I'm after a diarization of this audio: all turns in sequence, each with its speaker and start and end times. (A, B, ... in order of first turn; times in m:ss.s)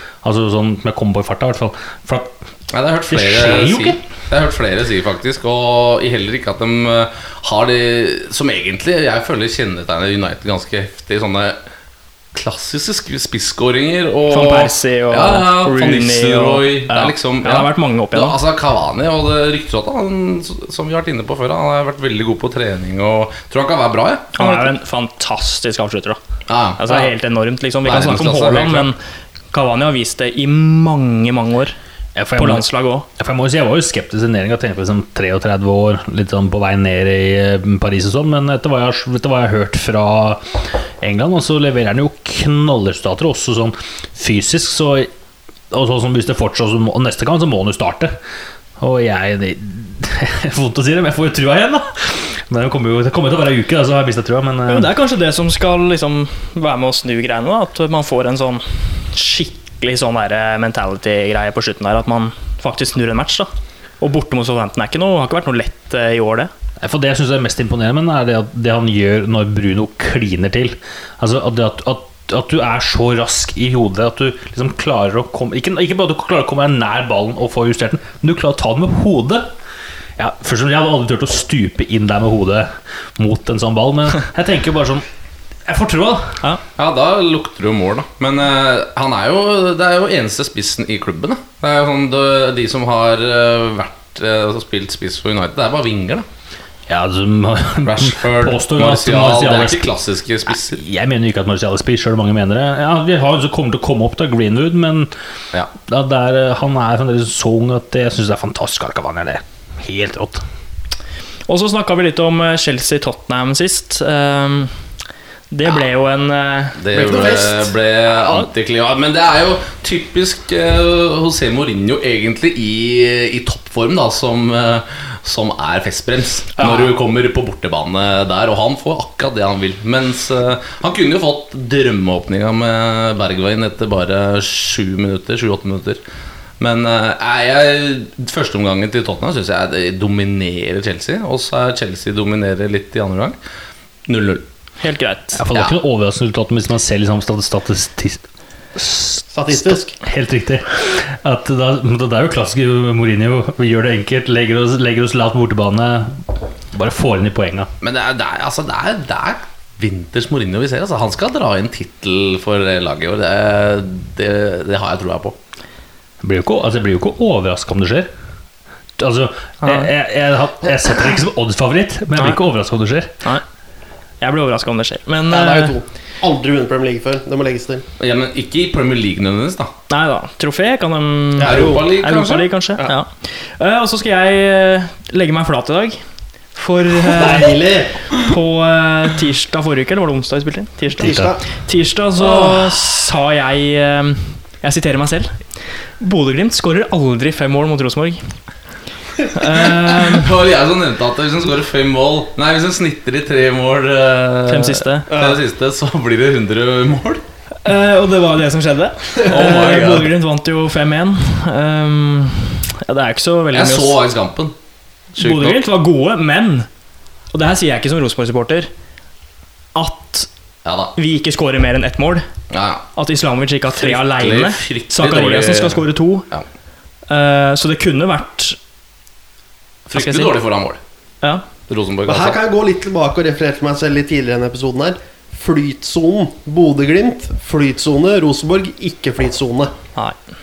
0:00.2-0:02.3 A
0:02.7-0:11.6 B
0:03.1-0:04.0 A
0:12.3-0:24.7 B
0:14.3-0:18.4 C
0:24.4-0:26.2 C
0:26.5-0:27.1 B
0:26.8-0:29.0 C
0:27.8-0:28.9 B
0:29.5-0:31.8 C
0:32.1-0:32.6 A
0:32.4-0:33.1 C
0:33.2-0:45.1 A
0:45.7-0:48.1 A
0:48.8-0:54.9 A
0:54.7-1:06.5 C
1:06.8-1:19.5 A
1:20.2-1:25.1 A
1:25.6-1:26.4 A
1:26.8-1:36.3 B
1:36.9-1:39.9 A
1:37.8-1:40.8 B
1:40.5-1:45.1 A
1:45.8-1:50.4 A
1:51.5-1:54.8 C
1:55.5-1:57.2 C
1:56.8-2:16.0 B
1:56.9-1:57.7 D
1:58.2-1:58.5 C
2:06.6-2:06.9 C
2:16.6-2:23.4 B
2:24.1-2:24.4 B
2:24.8-2:25.4 C
2:25.3-2:37.7 A
2:29.3-2:30.0 D
2:37.8-2:45.4 B
2:46.2-2:48.1 A
2:49.0-2:53.1 A
2:49.6-2:49.9 C
2:54.2-2:55.8 C
2:55.3-2:57.9 D
2:58.0-2:59.7 B
2:59.9-3:06.0 C
3:01.4-3:01.8 D
3:01.4-3:02.5 B
3:06.5-3:18.3 C
3:07.1-3:08.1 D
3:11.0-3:11.4 D
3:11.0-3:11.4 A
3:12.2-3:12.8 B
3:19.3-3:20.3 C
3:19.9-3:27.2 B
3:24.5-3:25.1 C
3:25.1-3:25.4 D
3:27.6-3:34.0 C
3:29.3-3:30.2 B
3:33.5-3:34.6 B
3:35.1-3:35.6 B
3:35.2-3:36.7 C
3:37.3-3:38.7 C
3:39.8-3:40.3 C
3:40.6-3:40.9 B
3:41.0-3:42.3 C
3:42.5-3:42.9 B
3:43.0-3:46.3 C
3:43.7-3:46.5 B
3:47.1-3:48.6 C
3:49.9-3:50.8 B
3:49.9-3:50.3 C
3:51.7-3:52.4 B
3:52.1-3:59.7 D